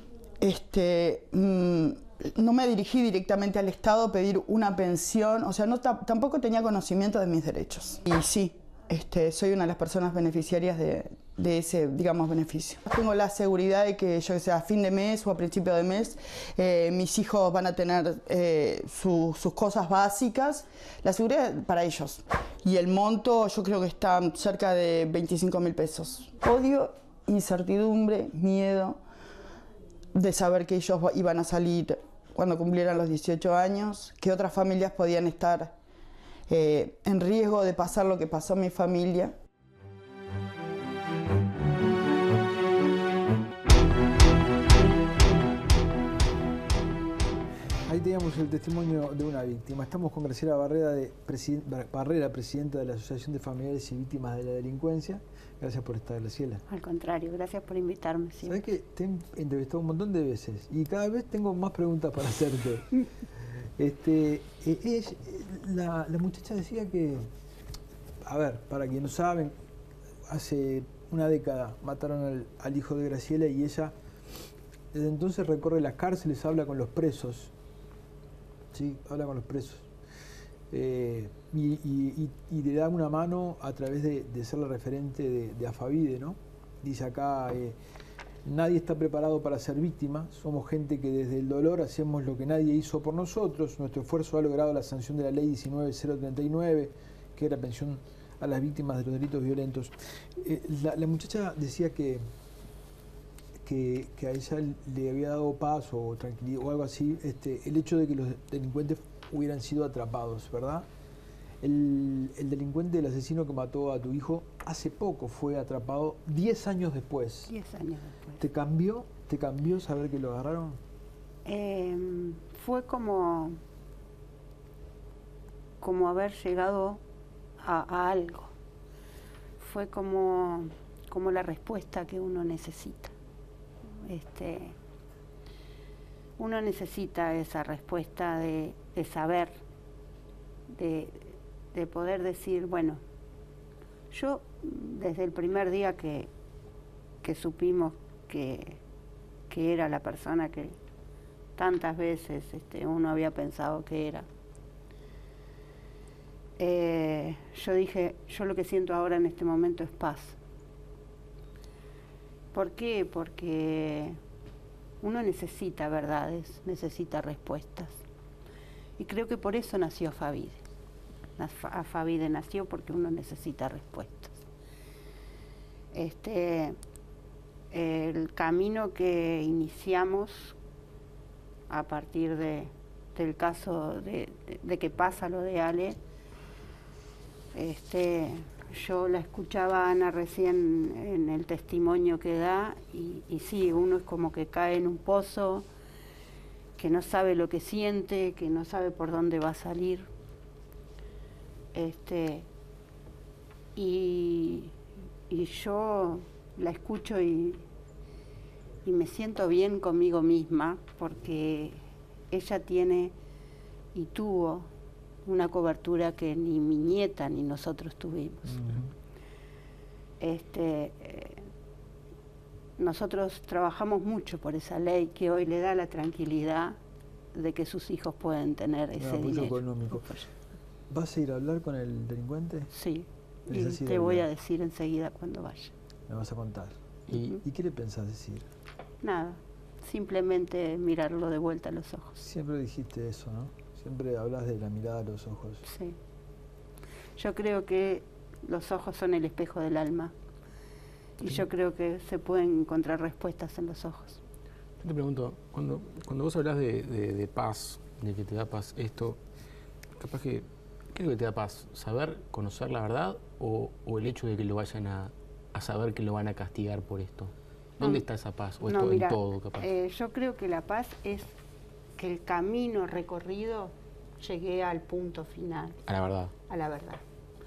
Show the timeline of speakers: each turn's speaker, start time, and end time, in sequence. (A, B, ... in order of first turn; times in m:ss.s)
0:00.4-0:29.0 A
0:30.1-0:35.7 A
0:36.5-0:39.3 A
0:47.9-0:56.6 B
0:56.7-0:58.6 C
0:58.4-1:03.0 B
1:03.8-1:07.3 B
1:08.2-1:09.5 B
1:10.3-1:13.9 B
1:14.9-1:17.5 B
1:18.7-1:19.9 B
1:20.7-1:27.8 B
1:28.4-1:42.2 B
1:43.6-1:50.9 B
1:51.6-1:57.5 B
1:57.5-1:58.4 C
1:58.4-2:00.8 B
2:01.4-2:03.6 C
2:05.8-2:07.0 C
2:07.6-2:08.5 C
2:09.6-2:13.1 C
2:14.0-2:14.7 C
2:16.4-2:19.6 C
2:20.7-2:23.0 C
2:24.1-2:26.3 C
2:27.2-2:28.8 C
2:29.5-2:30.8 C
2:31.6-2:34.3 C
2:36.6-2:40.4 C
2:42.5-2:44.2 C
2:45.0-2:48.0 C
2:49.0-2:50.6 C
2:51.4-2:54.4 C
2:55.9-2:56.8 C
2:57.7-3:00.6 C
3:01.7-3:06.0 C
3:07.5-3:15.6 C
3:16.8-3:20.1 C
3:21.7-3:22.5 C
3:23.7-3:24.7 C
3:25.3-3:27.6 C
3:28.8-3:31.8 C
3:32.3-3:33.1 C
3:33.9-3:34.7 C
3:35.2-3:38.7 C
3:38.5-3:38.9 B
3:40.2-3:41.4 C
3:42.8-3:46.8 C
3:47.3-3:50.3 C
3:49.0-3:50.1 B
3:50.9-3:52.7 B
3:52.7-3:55.7 C
3:53.5-3:54.3 B
3:56.1-3:56.8 B
3:57.1-3:57.4 D
3:57.3-3:58.5 B
3:59.0-4:02.2 C
4:02.2-4:05.6 B
4:05.6-4:06.0 C
4:07.2-4:10.1 C
4:11.2-4:14.2 C
4:14.8-4:19.2 D
4:20.0-4:29.7 D
4:27.8-4:28.0 C
4:28.6-4:31.3 C
4:32.0-4:35.8 C
4:35.9-4:36.3 D
4:36.4-4:37.0 C